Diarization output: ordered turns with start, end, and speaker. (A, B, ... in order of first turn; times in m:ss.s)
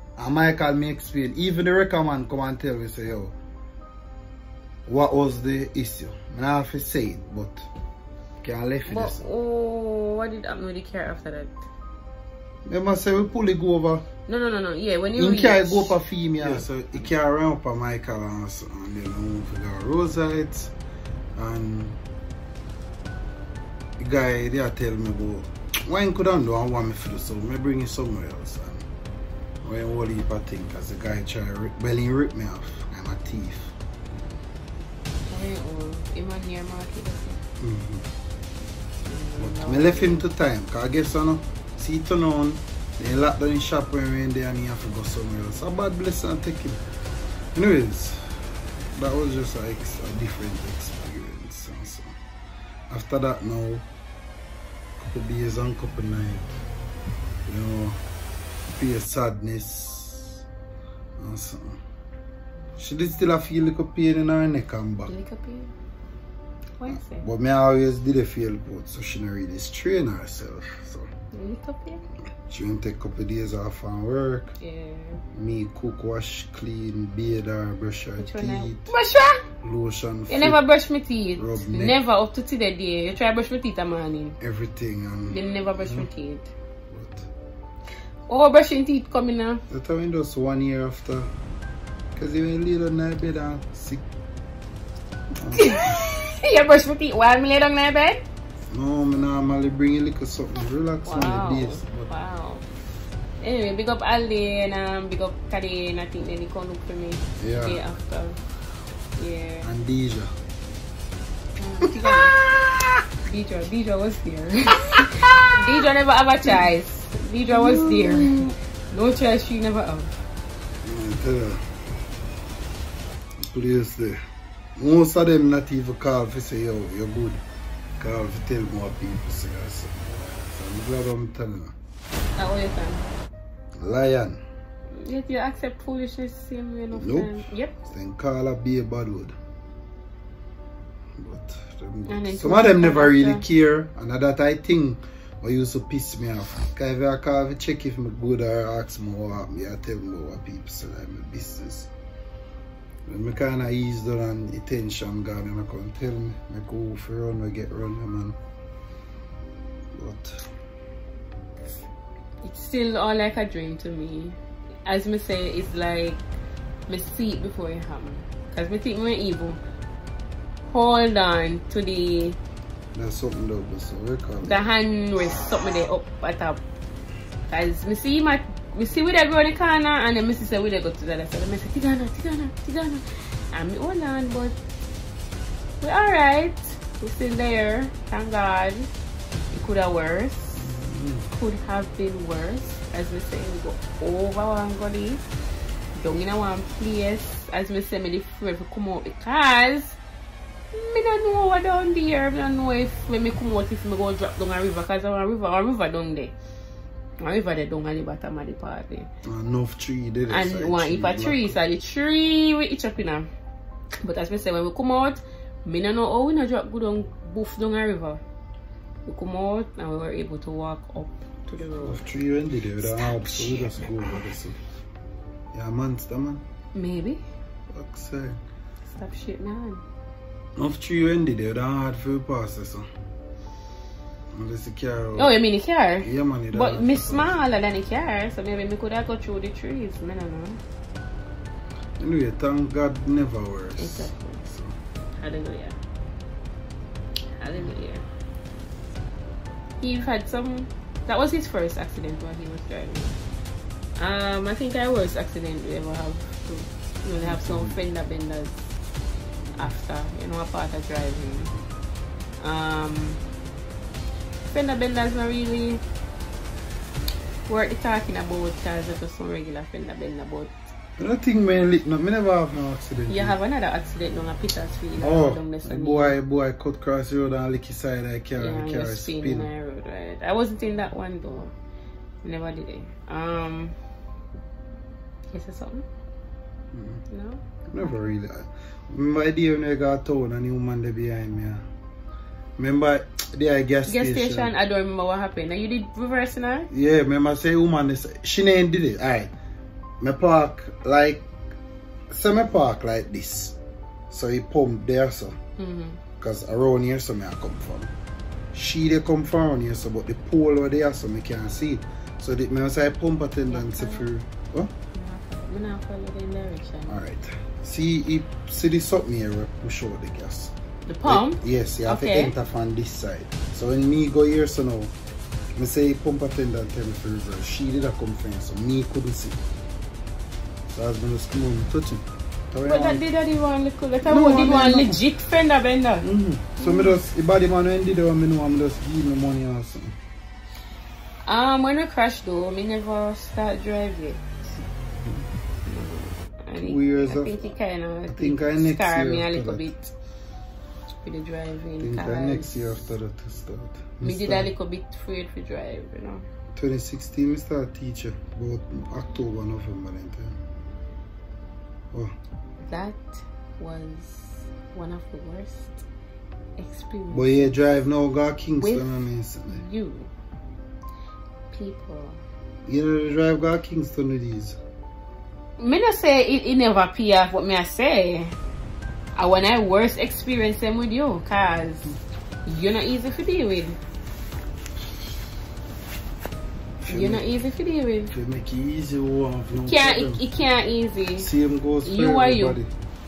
0:00.2-0:03.4 A
0:04.9-0:07.7 A
0:08.4-0:09.2 A
0:08.9-0:11.7 B
0:12.7-0:14.1 A
0:14.3-0:16.0 B
0:15.2-0:20.7 A
0:21.4-0:22.0 A
0:24.0-0:28.9 A
0:29.6-0:33.7 A
0:35.3-0:37.4 B
0:37.6-0:38.0 A
0:39.1-0:40.3 B
0:39.4-0:46.8 A
0:47.6-0:48.4 A
0:48.9-0:52.1 A
0:52.9-0:53.8 A
0:55.0-0:56.6 A
0:57.5-0:58.0 A
0:58.7-1:00.4 A
1:01.2-1:01.8 A
1:02.8-1:05.1 A
1:05.1-1:05.7 B
1:06.8-1:07.3 B
1:06.9-1:11.1 A
1:11.3-1:12.0 B
1:12.5-1:14.5 A
1:14.6-1:15.2 B
1:15.3-1:18.9 A
1:18.2-1:19.5 B
1:19.6-1:20.6 A
1:20.3-1:24.4 B
1:21.4-1:22.0 A
1:24.4-1:26.1 A
1:25.3-1:26.5 B
1:26.9-1:27.3 A
1:28.3-1:29.6 B
1:29.7-1:31.3 A
1:32.2-1:34.0 A
1:35.4-1:36.0 A
1:35.5-1:38.2 B
1:38.7-1:42.1 A
1:41.0-1:42.7 B
1:43.4-1:48.4 B
1:47.4-1:47.8 A
1:49.2-1:49.7 B
1:49.6-1:50.3 A
1:51.6-1:52.4 B
1:51.8-1:53.0 A
1:53.2-2:00.2 B
1:55.0-1:55.9 A
1:57.5-1:58.5 A
2:00.8-2:01.6 A
2:03.5-2:04.2 A
2:04.8-2:07.4 A
2:08.0-2:11.7 A
2:12.4-2:13.1 B
2:13.8-2:14.4 A
2:15.0-2:17.8 B
2:16.9-2:19.3 A
2:21.2-2:31.9 A
2:22.1-2:23.4 B
2:33.1-2:38.4 A
2:40.0-2:40.4 A
2:42.4-2:46.2 B
2:46.9-2:49.6 B
2:50.7-2:52.4 B
2:52.9-2:54.7 A
2:54.4-2:56.6 B
2:57.5-3:04.6 B
3:05.8-3:08.9 B
3:09.5-3:10.7 B
3:10.6-3:11.3 A
3:11.3-3:15.2 B
3:16.0-3:20.0 B
3:20.7-3:26.3 B
3:27.2-3:29.1 B
3:29.2-3:31.6 A
3:30.3-3:33.3 B
3:34.0-3:38.2 B
3:39.1-3:42.1 B
3:41.8-3:44.6 A
3:42.8-3:44.1 B
3:45.5-3:46.4 A
3:46.7-3:47.2 B
3:47.7-3:48.4 A
3:48.9-3:49.8 B
3:50.6-3:52.8 A
3:54.3-3:55.3 A
3:55.2-4:00.6 B
3:56.0-3:57.4 A
4:02.0-4:04.7 A
4:03.8-4:04.5 B
4:05.2-4:05.8 B
4:07.4-4:08.0 B
4:09.8-4:13.2 B
4:14.0-4:18.5 B
4:17.2-4:17.8 A
4:19.5-4:19.7 A
4:19.6-4:21.5 B
4:22.4-4:23.2 B
4:24.5-4:25.8 B
4:27.5-4:30.6 B
4:31.0-4:33.4 A
4:33.1-4:36.2 B
4:35.0-4:39.5 A
4:38.4-4:41.5 B
4:42.2-4:43.8 B
4:45.3-4:45.8 B
4:46.7-4:47.0 A
4:47.1-4:48.0 B
4:47.7-4:51.6 A
4:52.6-4:54.5 A
4:53.9-4:56.7 B
4:56.7-4:59.3 A
5:00.0-5:01.3 A
5:02.1-5:03.6 A
5:04.1-5:05.4 A
5:05.6-5:06.0 B
5:06.2-5:07.9 A
5:08.5-5:14.7 A
5:13.5-5:14.1 B
5:14.9-5:17.0 B
5:16.9-5:20.5 A
5:20.9-5:22.3 B
5:21.1-5:24.9 A
5:25.6-5:29.4 A
5:30.7-5:33.0 A
5:32.6-5:36.0 B
5:34.0-5:35.0 A
5:36.0-5:40.0 A
5:36.6-5:37.0 B
5:41.3-5:44.2 B
5:45.7-5:49.9 B
5:46.6-5:47.5 A
5:48.1-5:49.7 A
5:51.0-5:52.9 B
5:51.8-5:54.5 A
5:54.0-5:56.2 B
5:56.6-6:00.4 A
6:02.6-6:05.8 B
6:06.6-6:07.6 B
6:07.1-6:09.6 A
6:08.6-6:10.1 B
6:11.5-6:12.2 B
6:12.7-6:14.6 A
6:15.6-6:18.4 B
6:19.2-6:23.8 B
6:26.8-6:27.3 A
6:26.9-6:28.2 B
6:28.1-6:30.2 A
6:29.6-6:31.3 B
6:31.2-6:32.7 A
6:31.8-6:32.6 B